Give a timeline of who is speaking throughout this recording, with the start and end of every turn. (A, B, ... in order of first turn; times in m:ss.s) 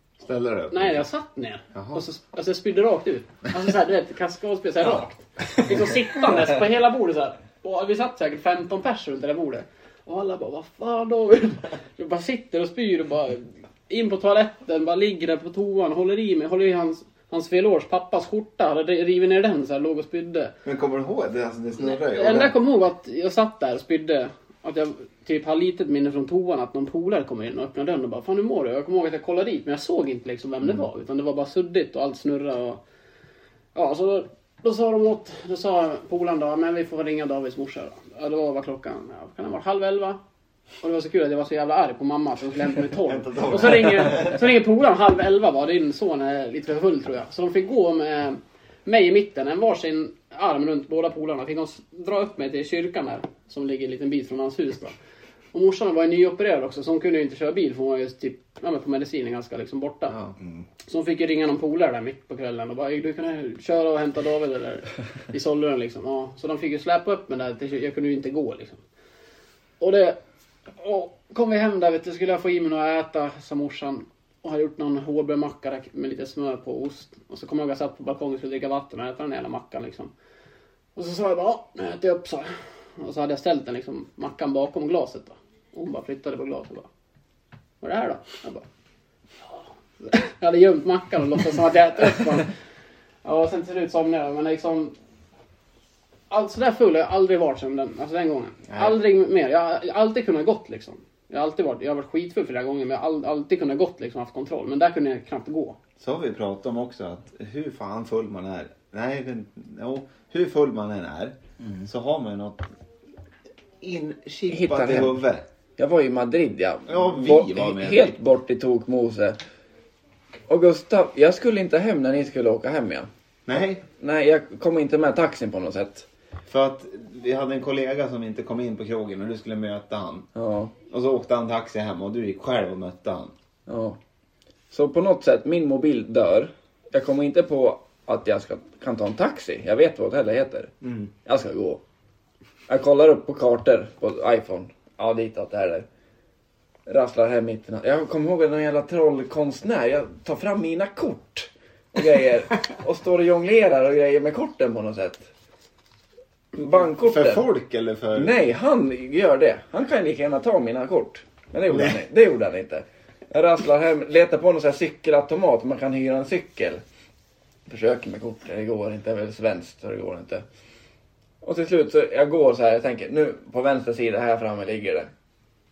0:00.2-0:01.0 A
0:00.7-0:20.5 B
0:01.7-0:02.0 A
0:20.6-0:22.5 A
0:21.8-0:32.8 B
0:33.8-0:40.2 B
0:40.8-0:55.0 B
0:43.0-0:44.5 A
0:55.5-1:00.2 B
1:00.9-1:08.8 B
1:09.8-1:10.2 B
1:10.8-1:20.1 B
1:21.0-1:26.9 B
1:27.8-1:28.6 B
1:30.0-1:32.5 B
1:33.2-1:34.9 B
1:36.3-1:45.8 B
1:38.7-1:39.0 A
1:46.0-1:52.7 A
1:53.8-1:55.4 A
1:54.5-1:55.2 C
1:55.8-1:59.4 C
1:56.9-1:58.2 A
2:00.5-2:03.1 C
2:03.5-2:03.8 A
2:04.0-2:06.1 C
2:06.5-2:10.3 A
2:10.4-2:10.7 C
2:10.9-2:13.3 A
2:13.7-2:14.0 C
2:14.7-2:21.8 C
2:22.7-2:25.9 C
2:26.9-2:35.3 C
2:36.5-2:37.5 C
2:37.0-2:38.4 A
2:38.1-2:46.8 C
2:47.7-2:50.4 C
2:51.4-2:55.1 C